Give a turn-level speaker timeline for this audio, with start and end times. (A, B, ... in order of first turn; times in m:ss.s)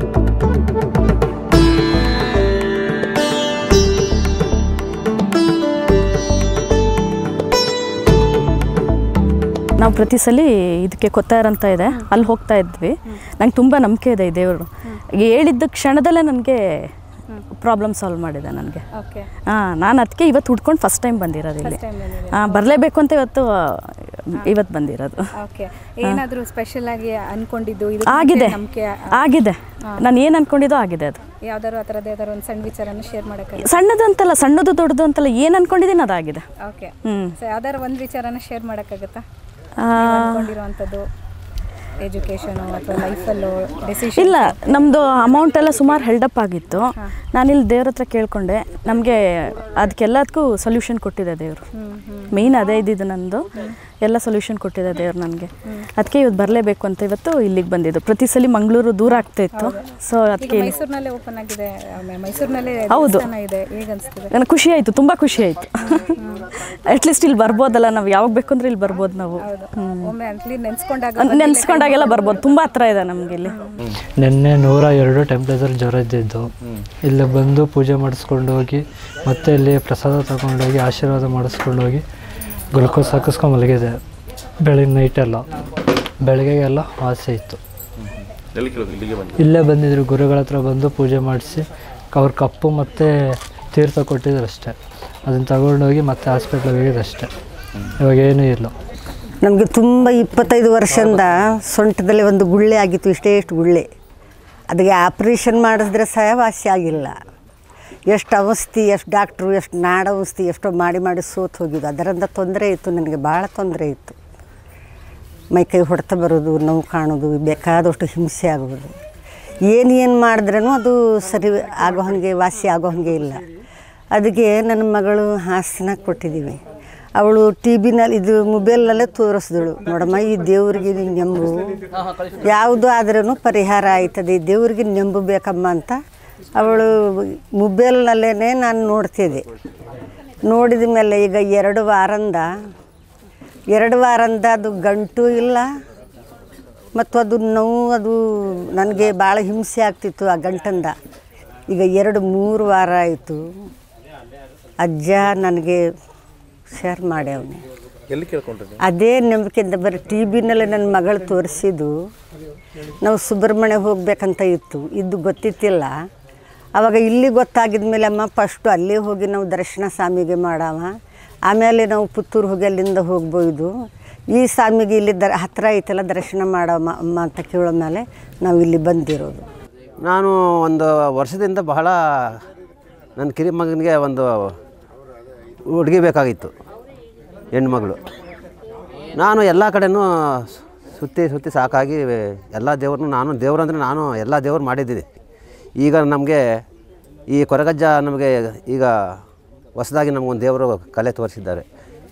0:09.8-0:14.7 A
0:15.2-0:16.9 A
0:17.6-0:18.8 A
0:18.9-0:19.3 B
0:19.5-0:21.8 A
0:21.6-0:22.7 B
0:22.3-0:25.2 A
0:25.4-0:29.2 B
0:28.1-0:28.6 A
0:29.1-0:31.2 A
0:31.4-0:33.7 B
0:33.6-0:36.4 A
0:36.6-0:39.2 B
0:37.0-0:37.3 A
0:39.9-0:41.0 B
0:40.0-0:40.5 A
0:42.0-0:44.6 B
0:44.2-0:51.6 A
0:51.8-0:52.3 B
0:52.3-0:53.5 A
0:54.0-1:00.7 A
0:59.6-0:59.8 B
1:00.4-1:04.3 B
1:02.9-1:03.3 A
1:04.3-1:06.1 A
1:06.2-1:06.5 B
1:06.7-1:10.1 A
1:09.4-1:12.4 B
1:11.2-1:13.6 A
1:14.2-1:16.5 C
1:17.1-1:22.0 C
1:22.7-1:24.0 C
1:24.6-1:25.4 C
1:26.2-1:27.6 C
1:29.2-1:37.3 C
1:38.0-1:38.7 C
1:39.4-1:43.8 D
1:44.7-1:47.2 D
1:48.1-1:54.2 D
1:55.5-1:58.9 D
1:59.7-2:03.4 D
2:04.1-2:06.6 D
2:07.2-2:16.0 D
2:16.5-2:19.4 D
2:20.4-2:22.5 D
2:23.7-2:25.7 D
2:26.9-2:30.9 D
2:31.7-2:33.4 D
2:34.8-2:35.8 D
2:36.7-2:37.6 D
2:38.8-2:42.0 D
2:43.0-2:45.9 D
2:46.8-2:50.9 D
2:51.5-2:53.7 D
2:54.3-2:59.4 D
3:00.0-3:02.4 E
3:03.2-3:04.5 E
3:05.7-3:06.5 E
3:07.5-3:08.0 E
3:09.1-3:15.1 E
3:15.8-3:16.6 E
3:17.3-3:19.2 E
3:19.8-3:21.6 E